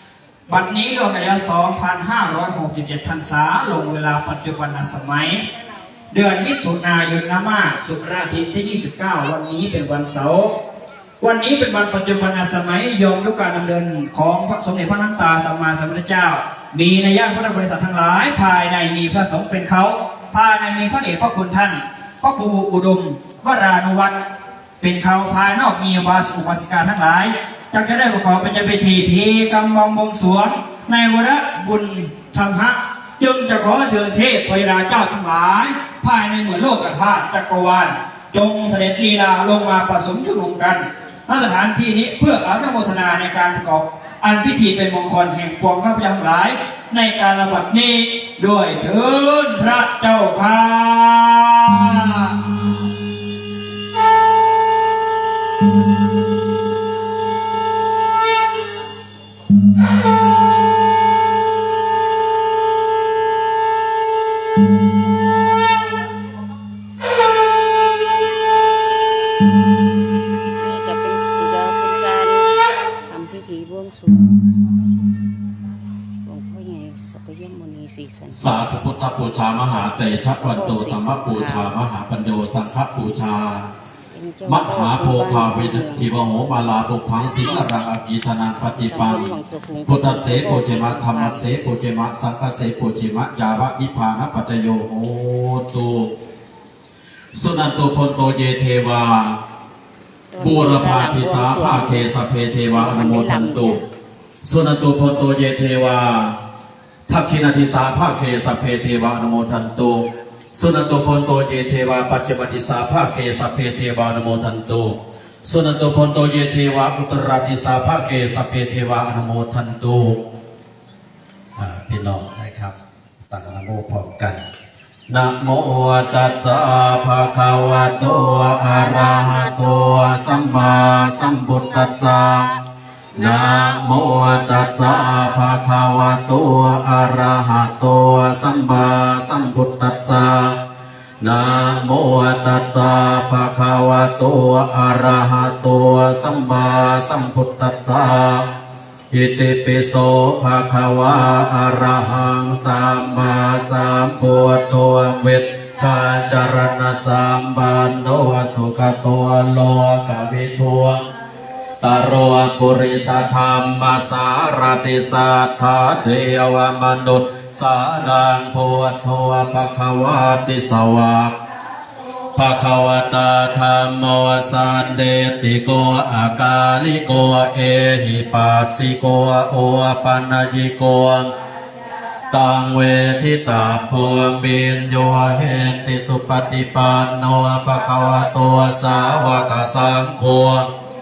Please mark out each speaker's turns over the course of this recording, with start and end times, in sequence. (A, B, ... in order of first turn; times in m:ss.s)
0:00.5-0:05.4 A
0:06.1-0:10.5 A
0:11.2-0:24.2 A
0:24.8-0:52.4 A
1:10.6-1:12.5 B
1:13.1-1:14.4 B
1:16.2-1:18.4 B
1:18.3-1:23.7 C
1:20.4-1:21.7 B
1:24.1-1:26.1 B
1:24.4-1:29.3 C
1:27.4-1:27.7 B
1:28.7-1:31.6 B
1:29.8-1:36.1 C
1:37.3-1:39.4 C
1:40.3-1:42.1 B
1:40.4-1:43.8 C
1:42.7-1:43.8 B
1:44.4-1:46.4 C
1:47.1-2:00.2 C
2:01.6-2:02.7 C
2:03.3-2:04.4 C
2:05.1-2:12.6 C
2:13.1-2:20.6 C
2:21.2-2:28.5 C
2:29.1-2:41.1 C
2:41.8-2:51.4 C
2:52.3-3:01.3 C
3:02.3-3:10.7 C